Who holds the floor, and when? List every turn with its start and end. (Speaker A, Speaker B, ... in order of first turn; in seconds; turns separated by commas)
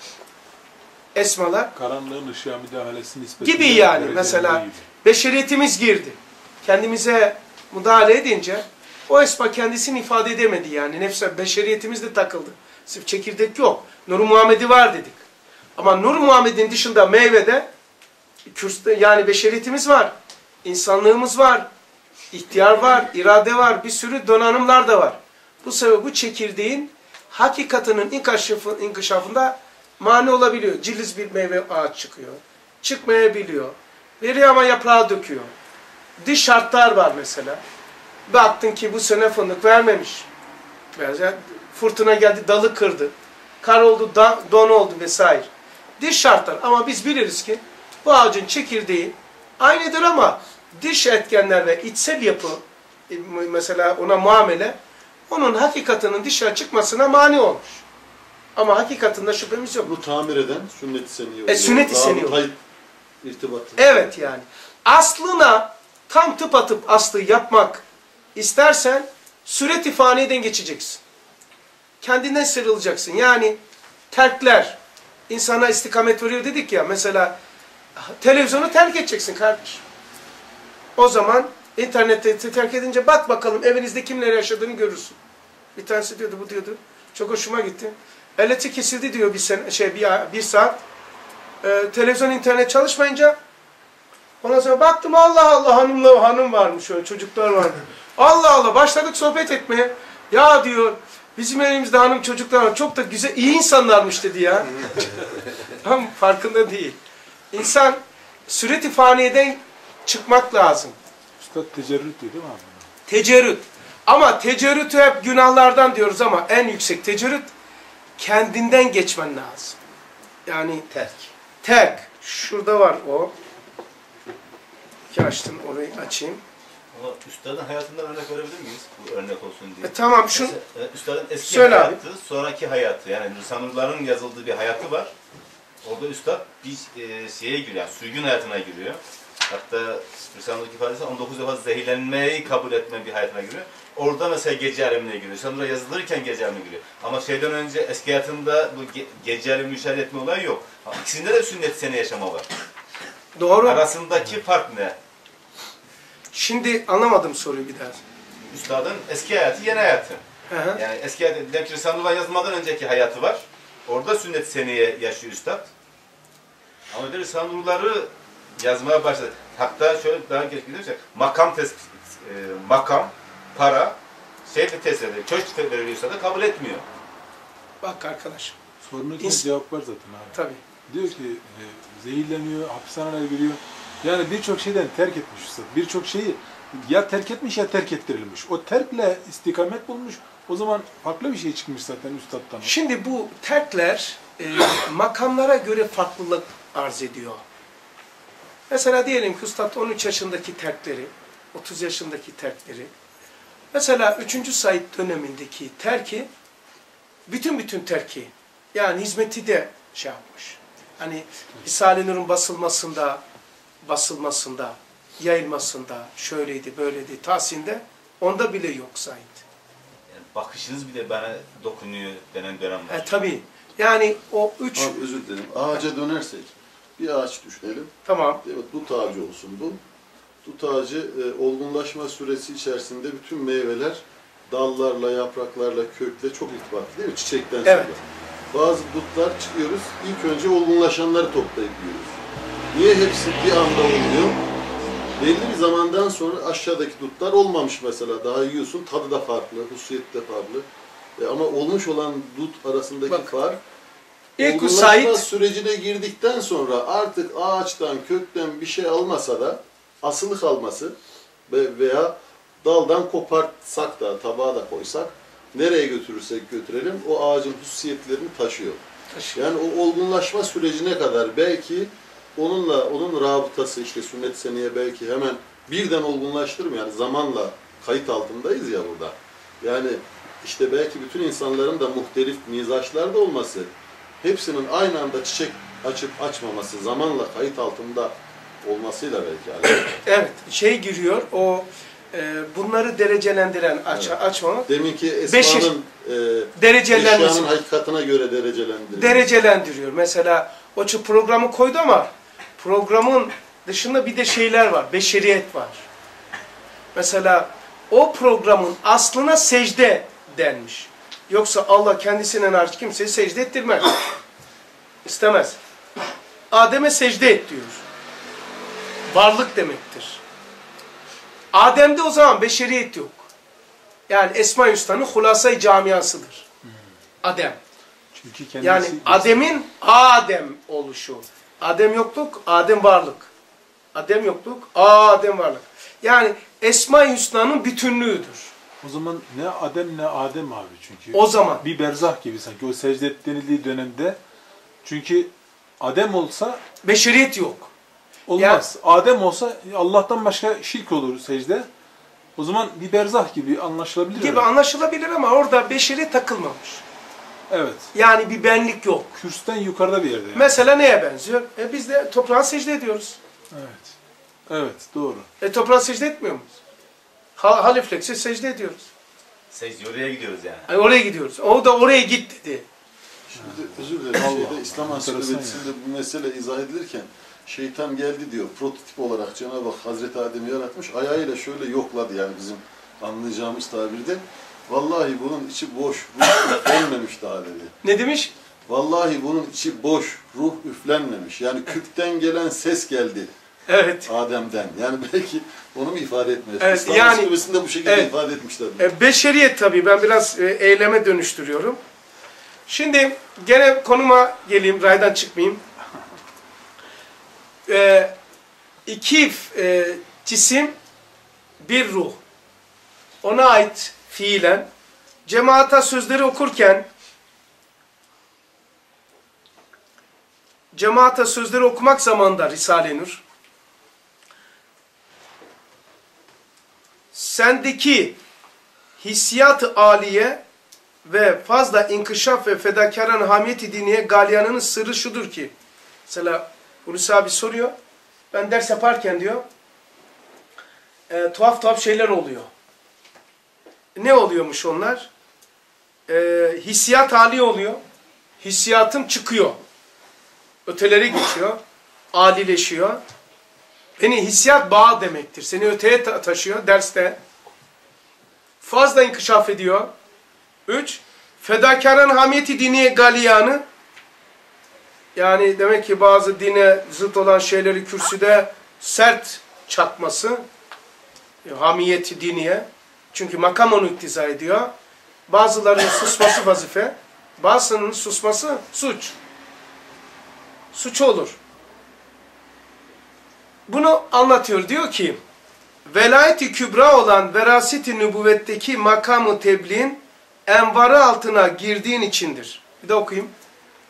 Speaker A: 1.1-1.7, Speaker B: 1.7-4.8, Speaker A: 3.4-15.2, Speaker A: 15.8-17.7, Speaker A: 18.5-21.7, Speaker A: 22.3-35.5, Speaker A: 36.2-37.6, Speaker A: 38.3-40.3, Speaker A: 40.9-45.5, Speaker A: 46.0-54.8, Speaker A: 55.3-57.8, Speaker A: 58.5-59.9, Speaker C: 59.8-62.6, Speaker A: 61.5-62.4, Speaker C: 63.2-64.3, Speaker A: 63.8-67.8, Speaker A: 68.3-71.0, Speaker A: 72.0-73.6, Speaker A: 74.1-74.8, Speaker A: 75.3-77.3, Speaker A: 78.0-79.8, Speaker A: 81.0-85.2, Speaker A: 85.8-90.8, Speaker A: 91.6-93.4, Speaker A: 94.4-104.9, Speaker A: 105.7-107.0, Speaker A: 107.5-110.9, Speaker B: 111.4-112.8, Speaker A: 113.1-117.5, Speaker A: 118.2-119.8, Speaker A: 120.5-123.3, Speaker A: 125.1-126.4, Speaker D: 126.9-135.1, Speaker A: 129.8-130.5, Speaker A: 131.4-132.0, Speaker D: 135.8-152.5, Speaker A: 153.3-153.9, Speaker D: 153.6-155.0, Speaker A: 156.3-158.0, Speaker D: 158.5-160.2, Speaker A: 160.5-160.8, Speaker D: 160.7-165.7, Speaker D: 166.9-176.8, Speaker A: 177.8-178.6, Speaker B: 178.8-192.7, Speaker A: 179.2-179.5, Speaker A: 180.3-180.6, Speaker A: 192.6-197.4, Speaker A: 198.7-202.9, Speaker A: 203.7-206.3, Speaker A: 207.3-213.2, Speaker A: 213.8-219.4, Speaker D: 220.1-223.1, Speaker A: 222.9-225.0, Speaker C: 224.7-229.8, Speaker A: 228.1-228.4, Speaker C: 230.4-242.2, Speaker A: 237.6-238.0, Speaker C: 242.7-244.4, Speaker C: 245.2-253.6, Speaker A: 253.1-253.3, Speaker A: 254.4-255.2, Speaker C: 254.4-260.9, Speaker C: 261.5-268.8, Speaker A: 269.1-269.4, Speaker C: 269.3-289.9, Speaker A: 289.9-294.7, Speaker C: 293.9-299.4, Speaker A: 295.2-295.7, Speaker A: 296.6-297.5, Speaker A: 298.9-305.9, Speaker A: 306.9-313.9, Speaker A: 315.0-315.6, Speaker A: 316.5-317.8, Speaker A: 319.1-320.2, Speaker A: 321.5-323.3, Speaker A: 324.1-326.4, Speaker A: 327.2-327.6, Speaker B: 328.1-329.5, Speaker A: 328.6-333.3, Speaker A: 333.9-338.5, Speaker B: 338.8-344.2, Speaker A: 341.1-341.6, Speaker B: 344.8-346.6, Speaker A: 346.8-347.7, Speaker B: 348.3-351.7, Speaker A: 348.4-348.6, Speaker B: 352.4-354.5, Speaker A: 354.1-356.8, Speaker B: 357.5-357.9, Speaker A: 357.9-359.1, Speaker B: 359.1-360.6, Speaker A: 360.3-363.2, Speaker B: 363.5-363.9, Speaker B: 364.5-365.3, Speaker A: 365.4-366.6, Speaker A: 367.4-368.9, Speaker D: 369.5-370.7, Speaker A: 370.7-372.6, Speaker C: 373.3-387.7, Speaker B: 373.4-375.6, Speaker A: 387.8-388.3, Speaker C: 388.6-393.3, Speaker A: 393.7-394.1, Speaker C: 394.0-398.9, Speaker A: 396.6-397.3, Speaker A: 397.8-398.1, Speaker A: 398.8-401.8, Speaker A: 402.7-405.6, Speaker A: 407.7-408.1, Speaker A: 408.9-410.7, Speaker A: 411.6-412.2, Speaker A: 413.2-414.7, Speaker A: 415.2-416.9, Speaker A: 420.7-423.2, Speaker A: 427.1-428.2, Speaker A: 429.0-430.4, Speaker A: 431.0-435.5, Speaker A: 436.1-437.7, Speaker A: 438.3-439.4, Speaker A: 441.1-442.5, Speaker A: 443.9-445.1, Speaker A: 446.1-447.8, Speaker A: 448.4-449.6, Speaker A: 450.6-451.6, Speaker A: 452.1-453.0, Speaker A: 454.0-457.2, Speaker A: 458.6-459.9, Speaker A: 460.7-463.6, Speaker A: 465.1-470.4, Speaker A: 471.4-474.7, Speaker A: 475.3-479.1, Speaker A: 480.7-481.4, Speaker A: 483.7-485.2, Speaker A: 485.9-493.3